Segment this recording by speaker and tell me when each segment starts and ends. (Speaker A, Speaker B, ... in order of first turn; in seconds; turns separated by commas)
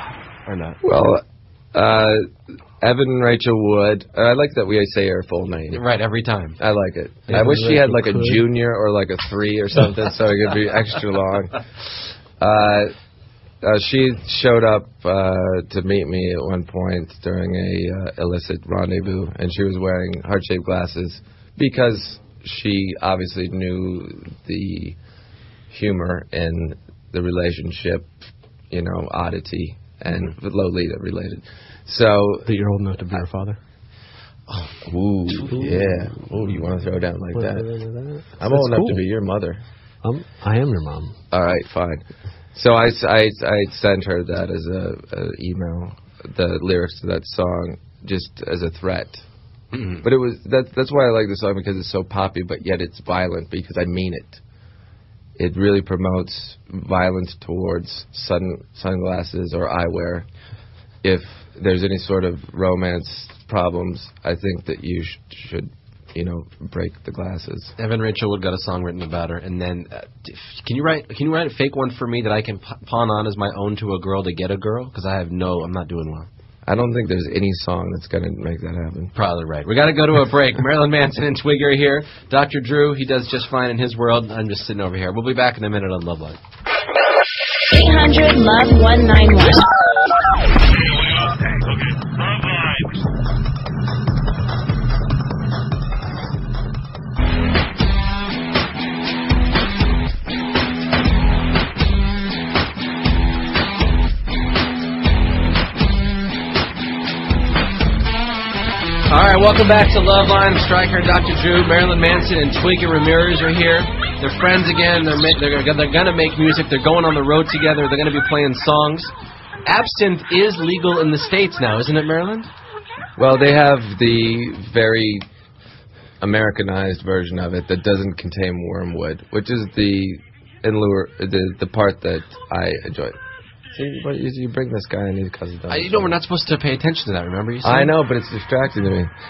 Speaker A: 0.5-0.8, Speaker B: 0.8-1.2, Speaker B: 1.7-2.2, Speaker B: 2.8-5.8, Speaker A: 5.7-6.6, Speaker B: 6.6-11.7, Speaker C: 7.3-8.4, Speaker B: 12.4-12.9, Speaker B: 13.6-25.0, Speaker B: 25.7-28.1, Speaker B: 28.7-32.5, Speaker C: 32.5-33.6, Speaker A: 34.5-34.8, Speaker B: 34.9-37.7, Speaker A: 35.4-35.7, Speaker C: 35.6-35.9, Speaker C: 37.3-39.0, Speaker B: 38.4-39.6, Speaker C: 40.0-41.2, Speaker B: 41.3-49.2, Speaker A: 49.7-50.0, Speaker B: 50.0-54.4, Speaker B: 55.4-60.3, Speaker B: 61.0-67.7, Speaker A: 67.8-76.3, Speaker B: 76.7-79.1, Speaker A: 79.2-86.4, Speaker D: 87.7-89.7, Speaker A: 109.1-119.1, Speaker A: 119.7-122.5, Speaker B: 123.2-125.2, Speaker B: 126.2-133.2, Speaker B: 133.7-136.2, Speaker A: 135.7-137.9, Speaker B: 137.6-139.1